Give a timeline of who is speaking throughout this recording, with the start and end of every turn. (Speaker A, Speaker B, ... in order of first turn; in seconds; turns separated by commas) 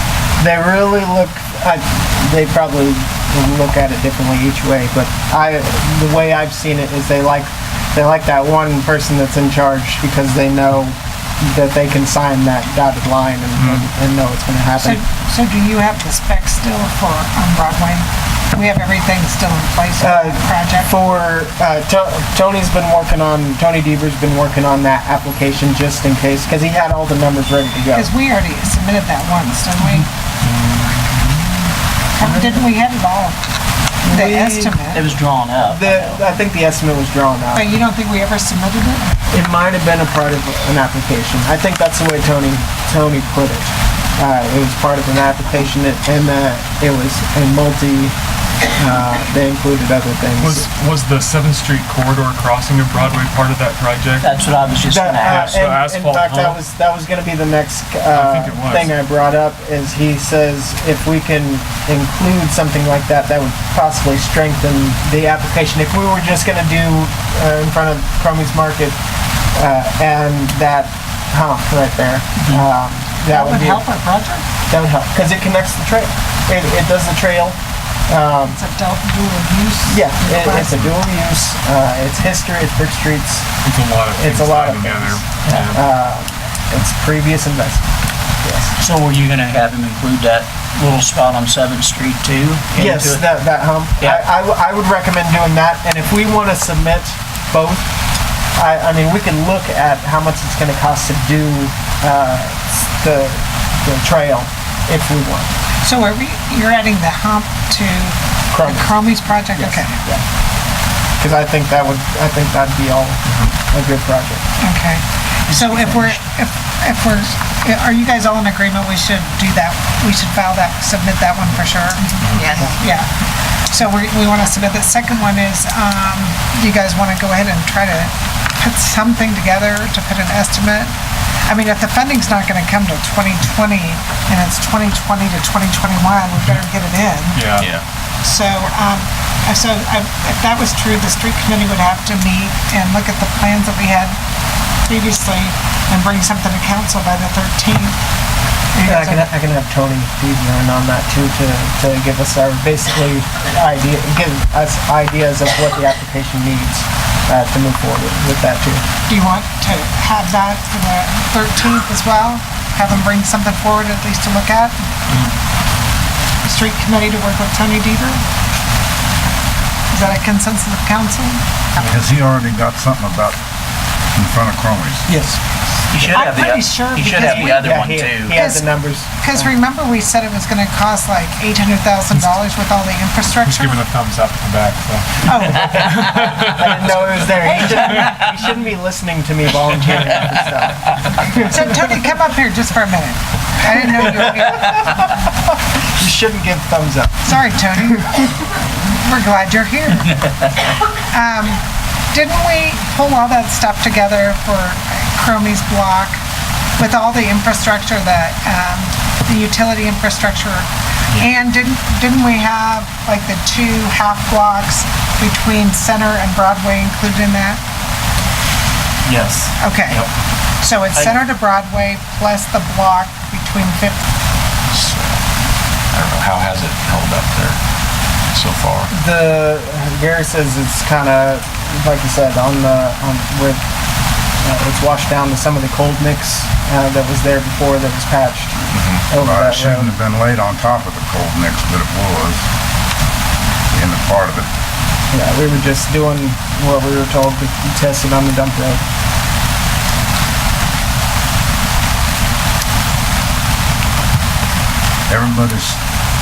Speaker A: 0.4-15.0, Speaker B: 13.6-13.9, Speaker C: 14.8-21.0, Speaker A: 20.0-28.1, Speaker C: 27.9-30.1, Speaker B: 30.5-31.2, Speaker C: 32.2-33.4, Speaker A: 32.2-32.7, Speaker A: 34.0-34.8, Speaker C: 34.0-35.0, Speaker D: 34.9-36.2, Speaker A: 35.7-37.7, Speaker C: 37.5-39.1, Speaker A: 39.3-48.1, Speaker A: 48.7-50.7, Speaker B: 50.4-54.3, Speaker D: 54.2-55.5, Speaker A: 54.8-69.0, Speaker B: 55.2-56.6, Speaker B: 58.1-58.9, Speaker A: 69.5-73.9, Speaker C: 73.3-74.4, Speaker A: 74.7-77.6, Speaker A: 78.1-78.6, Speaker C: 78.5-80.7, Speaker A: 79.9-83.5, Speaker B: 83.6-85.8, Speaker A: 84.1-87.8, Speaker A: 88.4-88.7, Speaker D: 88.8-93.4, Speaker A: 92.7-97.9, Speaker A: 98.5-105.5, Speaker C: 105.8-110.0, Speaker A: 108.5-110.2, Speaker A: 111.2-114.4, Speaker C: 114.6-123.1, Speaker D: 115.5-116.2, Speaker B: 122.2-122.5, Speaker C: 123.7-130.9, Speaker C: 131.4-137.7, Speaker B: 137.3-137.7, Speaker E: 137.6-137.8, Speaker C: 138.2-144.1, Speaker C: 144.8-148.0, Speaker C: 148.7-149.3, Speaker A: 148.8-158.8, Speaker C: 159.1-164.7, Speaker C: 166.4-168.2, Speaker C: 169.9-171.8, Speaker F: 171.8-173.4, Speaker F: 174.2-175.1, Speaker A: 175.1-175.6, Speaker D: 175.9-178.3, Speaker C: 176.1-177.7, Speaker A: 177.3-179.5, Speaker C: 178.3-183.8, Speaker B: 183.4-187.3, Speaker C: 185.2-186.0, Speaker A: 185.6-192.1, Speaker C: 191.5-194.9, Speaker A: 195.9-197.4, Speaker C: 197.2-200.2, Speaker C: 201.1-206.2, Speaker C: 206.8-217.6, Speaker D: 219.1-220.0, Speaker C: 219.6-220.0, Speaker C: 220.6-224.0, Speaker E: 224.7-225.2, Speaker E: 225.9-227.6, Speaker E: 228.3-228.9, Speaker A: 228.9-233.6, Speaker A: 234.4-238.5, Speaker E: 238.7-239.1, Speaker A: 239.1-239.9, Speaker F: 239.1-242.4, Speaker F: 243.7-244.5, Speaker A: 245.1-248.8, Speaker F: 255.1-255.8